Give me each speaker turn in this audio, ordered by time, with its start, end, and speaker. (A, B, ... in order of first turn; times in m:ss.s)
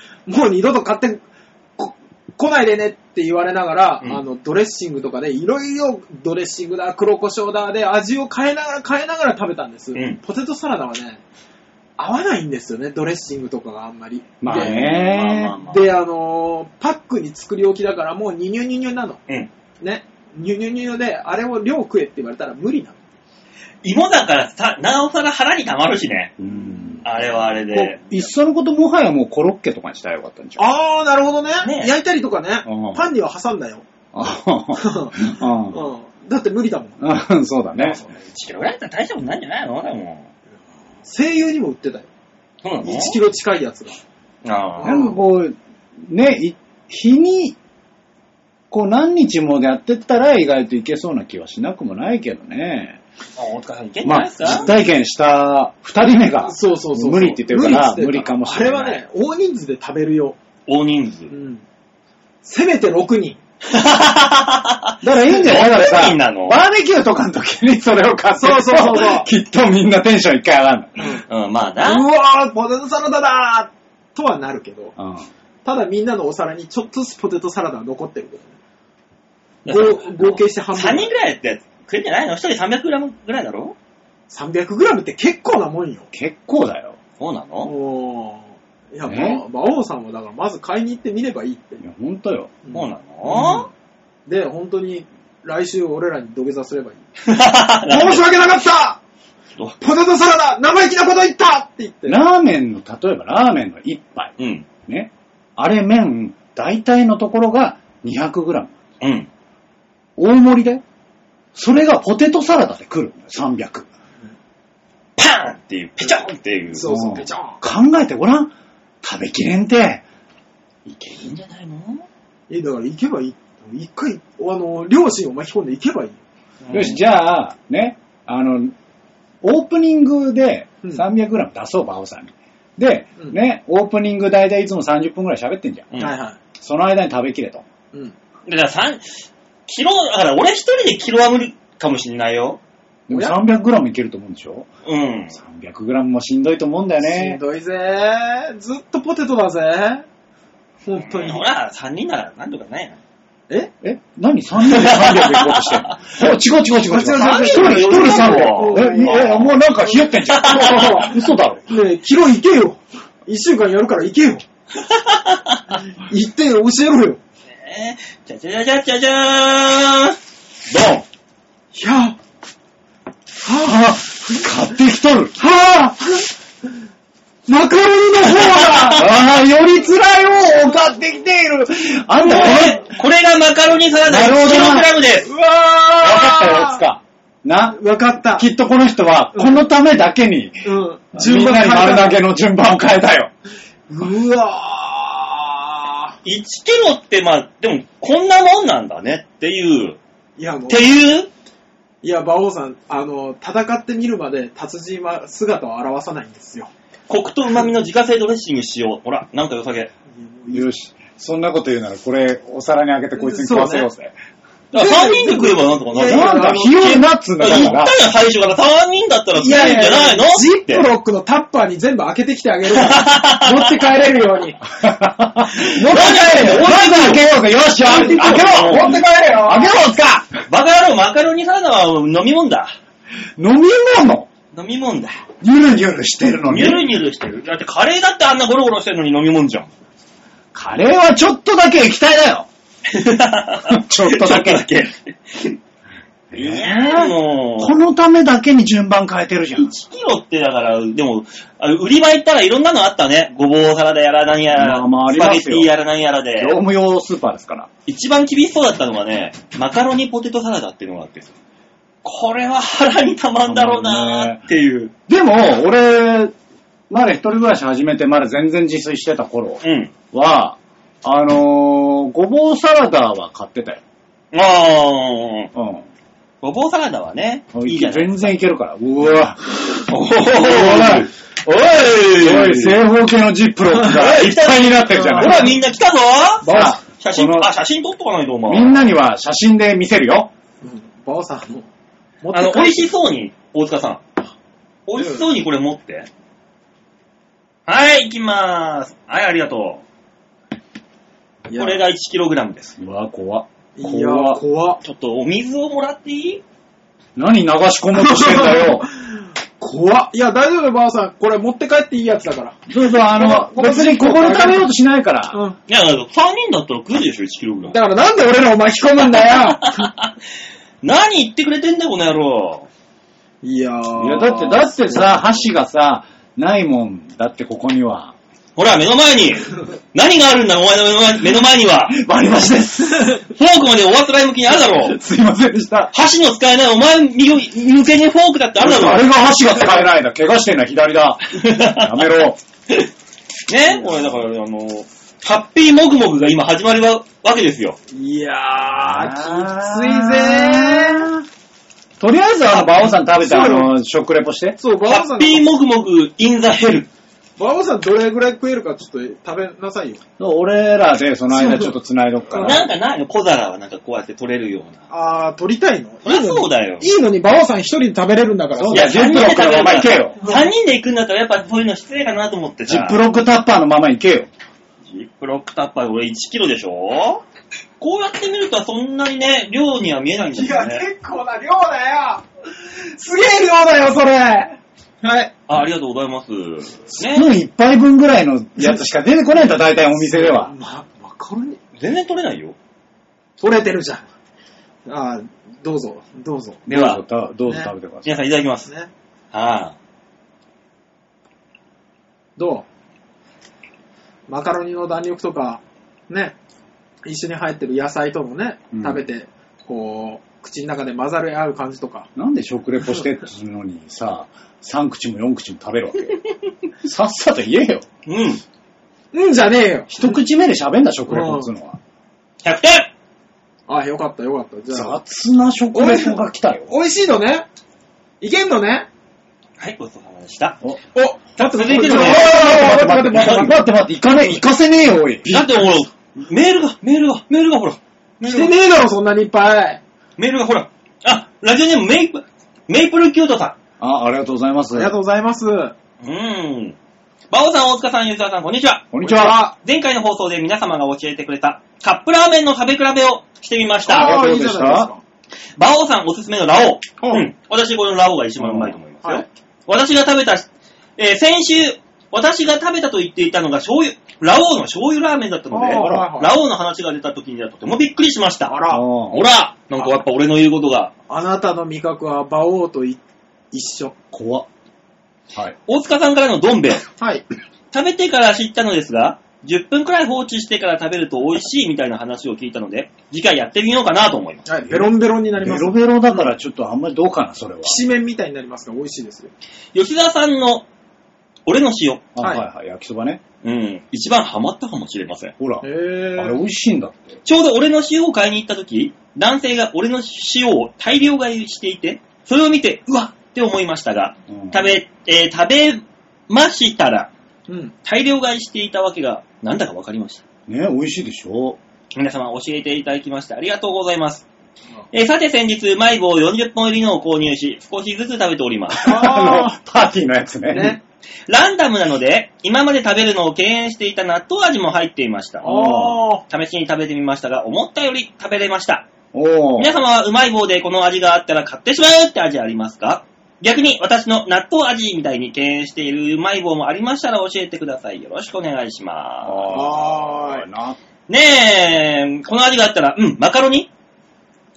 0:00.3-0:01.2 A
0:01.8-0:11.2 A
0:09.9-0:10.2 B
0:12.0-0:15.1 A
0:14.4-0:15.5 C
0:14.5-0:15.9 B
0:15.7-0:19.2 A
0:19.8-0:23.0 A
0:23.8-0:26.3 B
0:26.4-0:27.0 C
0:27.0-0:28.0 B
0:27.7-0:30.7 C
0:30.6-0:33.8 A
0:31.6-0:31.9 B
0:32.6-0:33.0 C
0:34.1-0:35.8 C
0:34.8-0:37.0 A
0:37.0-0:38.0 C
0:37.8-0:40.3 B
0:41.0-0:42.1 A
0:42.6-0:43.2 B
0:42.8-0:44.0 A
0:44.4-0:45.0 B
0:44.8-0:45.2 A
0:44.8-0:47.6 C
0:48.7-0:53.0 C
0:53.4-0:54.7 B
0:54.0-0:59.0 C
0:56.4-1:00.4 A
1:00.7-1:01.3 B
1:01.3-1:01.6 A
1:02.4-1:03.4 A
1:03.6-1:06.6 B
1:05.0-1:10.9 C
1:08.4-1:09.3 A
1:11.0-1:11.2 A
1:11.0-1:12.0 B
1:11.8-1:14.9 A
1:15.0-1:15.3 C
1:15.6-1:18.5 A
1:19.6-1:23.8 B
1:19.7-1:21.1 A
1:24.3-1:26.1 A
1:26.1-1:27.0 C
1:27.2-1:27.7 B
1:27.6-1:31.8 A
1:29.0-1:29.4 C
1:31.8-1:32.5 C
1:32.6-1:33.7 A
1:32.7-1:33.7 B
1:34.3-1:37.0 A
1:37.2-1:38.2 B
1:37.9-1:39.0 A
1:39.8-1:42.2 A
1:42.1-1:44.3 C
1:44.4-1:44.6 B
1:44.8-1:48.7 C
1:49.0-1:49.3 B
1:50.2-1:50.8 C
1:51.5-1:53.9 C
1:55.2-1:56.9 B
1:56.7-1:57.6 A
1:56.8-2:00.0 C
2:01.0-2:02.0 B
2:02.5-2:06.2 A
2:06.6-2:07.0 B
2:06.7-2:08.7 C
2:09.4-2:15.9 C
2:16.0-2:16.4 A
2:16.6-2:17.6 C
2:18.4-2:22.6 B
2:23.1-2:24.7 C
2:23.1-2:23.4 A
2:24.8-2:25.4 B
2:25.3-2:27.4 C
2:27.0-2:30.0 A
2:30.8-2:31.4 A
2:30.9-2:33.0 B
2:33.8-2:41.6 C
2:34.6-2:36.2 B
2:36.8-2:44.4 A
2:37.1-2:39.5 B
2:40.3-2:41.0 B
2:44.7-2:45.8 B
2:46.0-2:47.2 A
2:47.5-2:50.2 B
2:50.7-2:51.0 B
2:51.7-2:52.2 A
2:53.4-2:54.6 A
2:53.7-2:55.4 C
2:55.4-2:56.3 A
2:57.5-2:59.1 A
2:58.6-2:58.9 B
2:58.9-3:02.8 C
3:02.2-3:05.3 B
3:04.0-3:04.9 C
3:05.2-3:06.8 A
3:06.0-3:07.8 C
3:07.7-3:08.4 A
3:08.4-3:13.3 C
3:09.3-3:09.6 A
3:10.6-3:12.2 A
3:13.9-3:16.2 A
3:16.2-3:20.0 B
3:20.4-3:20.9 A
3:20.7-3:21.3 B
3:22.0-3:26.7 A
3:27.1-3:29.9 B
3:30.1-3:30.7 A
3:30.5-3:34.1 C
3:33.2-3:33.9 A
3:34.7-3:36.6 B
3:34.7-3:37.1 A
3:36.0-3:37.9 C
3:37.4-3:40.9 B
3:39.3-3:44.6 A
3:42.7-3:43.7 B
3:44.8-3:50.3 C
3:45.6-3:46.7 A
3:45.9-3:47.2 B
3:47.8-3:49.7 A
3:47.9-3:48.9 B
3:50.5-3:52.7 B
3:53.4-3:54.3 C
3:54.5-3:55.2 B
3:55.4-3:56.9 C
3:56.5-3:59.7 B
4:00.5-4:02.5 C
4:02.9-4:05.6 B
4:03.7-4:04.6 C
4:06.3-4:09.7 C
4:06.3-4:07.7 B
4:09.6-4:16.6 B
4:14.6-4:15.7 C
4:16.4-4:17.7 C
4:17.9-4:21.3 B
4:22.0-4:24.9 B
4:23.4-4:24.4 C
4:25.1-4:26.3 C
4:26.9-4:33.8 C
4:29.6-4:29.9 B
4:34.3-4:35.5 B
4:35.5-4:35.8 C
4:36.4-4:38.2 B
4:37.5-4:41.1 C
4:39.9-4:42.8 B
4:42.2-4:45.5 C
4:43.8-4:48.9 B
4:44.9-4:45.5 A
4:46.4-4:46.8 A
4:46.4-4:47.5 C
4:48.5-4:50.3 C
4:50.6-4:51.7 A
4:52.2-4:52.9 A
4:52.3-4:54.0 B
4:54.9-4:56.1 B
4:55.0-4:55.2 A
4:57.7-4:59.8 B
5:01.5-5:01.8 A
5:01.5-5:02.8 B
5:02.8-5:04.4 C
5:03.8-5:04.8 A
5:04.8-5:06.4 B
5:07.2-5:08.9 C
5:07.9-5:14.7 A
5:12.7-5:15.4 C
5:15.3-5:15.6 A
5:15.7-5:17.8 B
5:17.7-5:19.9 A
5:19.2-5:20.1 B
5:20.8-5:22.7 B
5:23.4-5:25.4 A
5:24.0-5:28.1 C
5:28.6-5:32.0 B
5:31.9-5:33.2 C
5:33.3-5:35.0 B
5:34.6-5:35.9 C
5:35.9-5:39.1 B
5:38.6-5:42.4 C
5:41.3-5:42.1 B
5:43.5-5:47.8 B
5:47.9-5:51.1 A
5:48.7-5:51.2 C
5:52.0-5:54.6 C
5:52.6-5:53.7 A
5:54.6-5:55.4 A
5:54.8-5:56.9 B
5:57.4-6:00.0 A
6:00.2-6:02.6 C
6:01.3-6:01.7 A
6:02.3-6:02.6 A
6:02.4-6:04.8 B
6:04.9-6:09.1 A
6:06.0-6:06.9 B
6:08.5-6:10.2 C
6:08.7-6:13.0 B
6:10.2-6:10.5 A
6:12.7-6:14.3 C
6:14.9-6:17.2 B
6:17.8-6:20.8 B
6:20.3-6:22.2 A
6:22.9-6:25.3 A
6:25.5-6:27.3 B
6:27.0-6:30.5 C
6:29.9-6:31.6 A
6:31.8-6:32.6 B
6:33.4-6:34.0 A
6:34.8-6:36.6 A
6:36.7-6:38.1 C
6:36.7-6:37.0 B
6:37.4-6:37.7 A
6:38.0-6:38.7 B
6:39.3-6:39.8 B
6:42.4-6:42.6 A
6:44.3-6:46.3 A
6:47.0-6:52.1 A
6:48.7-6:49.0 C
6:52.2-6:56.2 C
6:56.8-6:57.8 C
6:58.0-6:58.4 B
6:59.1-7:00.2 A
6:59.9-7:01.8 C
7:01.1-7:01.5 A
7:02.4-7:02.9 B
7:03.7-7:05.0 A
7:04.7-7:06.7 C
7:05.7-7:07.4 A
7:08.2-7:08.9 A
7:09.6-7:10.6 B
7:10.9-7:13.6 A
7:11.4-7:12.4 B
7:11.8-7:15.6 C
7:15.2-7:18.5 B
7:18.2-7:19.8 A
7:20.2-7:23.6 B
7:23.8-7:25.0 C
7:24.7-7:25.7 A
7:26.0-7:26.8 B
7:27.3-7:29.0 B
7:28.9-7:29.4 C
7:29.0-7:29.5 A
7:29.6-7:34.2 B
7:33.9-7:35.0 A
7:33.9-7:34.9 C
7:35.6-7:48.6 B
7:37.0-7:37.3 A
7:38.4-7:38.8 C
7:45.5-7:46.4 A
7:45.7-7:46.1 C
7:48.5-7:48.8 A
7:48.7-7:49.2 C
7:49.1-7:50.9 B
7:51.1-7:53.0 A
7:53.5-7:53.9 A
7:54.1-7:54.5 C
7:55.7-7:56.8 B
7:57.0-7:57.2 A
7:57.7-8:04.4 B
8:04.4-8:06.3 A
8:04.6-8:07.8 C
8:07.6-8:09.3 A
8:09.7-8:10.7 B
8:11.4-8:12.0 B
8:12.1-8:13.2 C
8:12.2-8:12.4 A
8:13.4-8:15.3 B
8:15.4-8:17.2 C
8:15.6-8:16.4 A
8:17.2-8:27.1 B
8:24.3-8:24.8 C
8:27.5-8:27.7 A
8:27.8-8:30.2 B
8:30.5-8:31.6 C
8:31.9-8:34.2 B
8:34.9-8:38.9 B
8:38.7-8:40.8 C
8:38.8-8:39.5 A
8:40.5-8:40.8 A
8:41.3-8:45.5 B
8:45.4-8:46.0 C
8:45.4-8:46.2 A
8:46.3-8:48.9 B
8:49.1-8:49.7 C
8:49.6-8:59.6 B
8:59.2-9:00.8 C
8:59.5-9:00.4 A
9:01.1-9:03.7 B